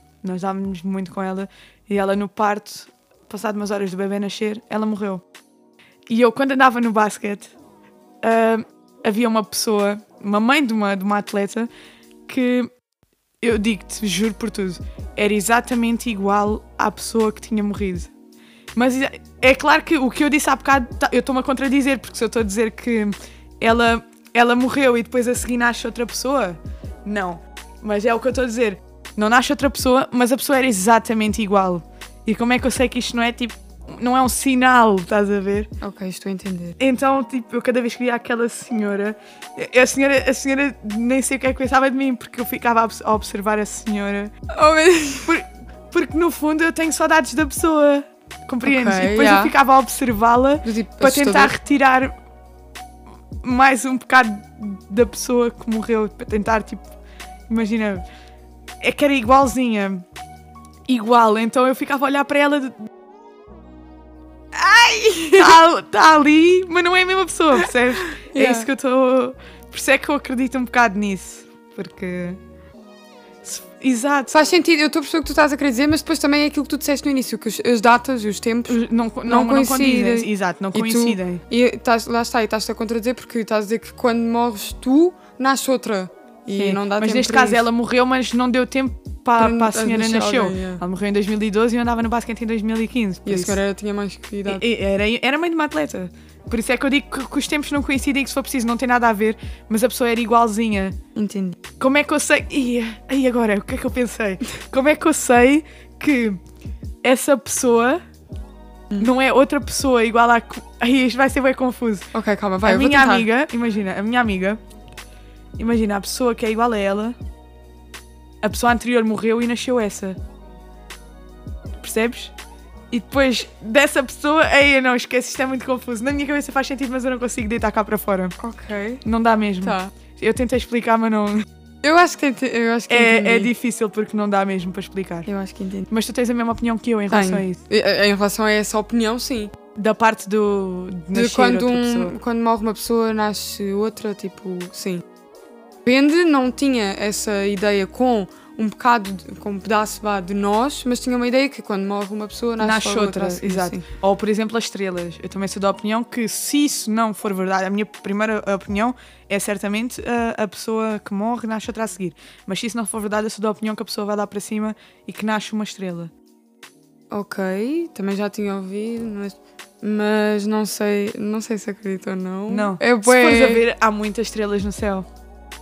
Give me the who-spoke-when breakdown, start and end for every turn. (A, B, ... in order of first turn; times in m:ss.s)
0:00.2-0:05.2 A
0:06.1-0:07.5 A
0:08.2-0:11.7 A
0:12.3-0:12.7 A
0:13.4-0:18.1 A
0:18.7-0:35.7 A
0:35.8-0:36.8 B
0:36.8-0:44.3 A
0:44.5-0:45.4 B
0:45.2-0:52.1 A
0:48.6-0:49.5 B
0:50.6-0:51.5 B
0:53.4-0:56.8 A
0:57.5-0:58.0 A
0:58.8-1:00.0 A
1:00.9-1:02.8 A
1:04.6-1:05.6 B
1:05.3-1:12.4 A
1:08.2-1:08.7 B
1:13.4-1:14.3 A
1:14.3-1:27.6 B
1:18.7-1:21.4 A
1:26.5-1:33.6 A
1:29.4-1:30.8 B
1:33.2-1:34.6 B
1:34.4-1:41.0 A
1:41.2-1:41.6 B
1:41.8-1:46.4 A
1:47.0-1:48.0 A
1:49.0-1:52.1 A
1:52.1-1:53.3 B
1:52.6-1:54.6 A
1:55.6-1:57.2 A
1:58.4-2:00.2 A
2:01.8-2:02.3 A
2:02.9-2:08.4 A
2:08.4-2:09.0 B
2:09.0-2:11.4 A
2:09.6-2:09.9 B
2:11.8-2:13.5 B
2:12.9-2:15.3 A
2:15.2-2:15.9 B
2:15.9-2:17.6 A
2:17.1-2:19.5 B
2:19.8-2:22.1 A
2:21.1-2:25.0 B
2:25.8-2:33.8 B
2:32.6-2:46.1 A
2:47.1-2:53.6 B
2:52.5-2:55.0 A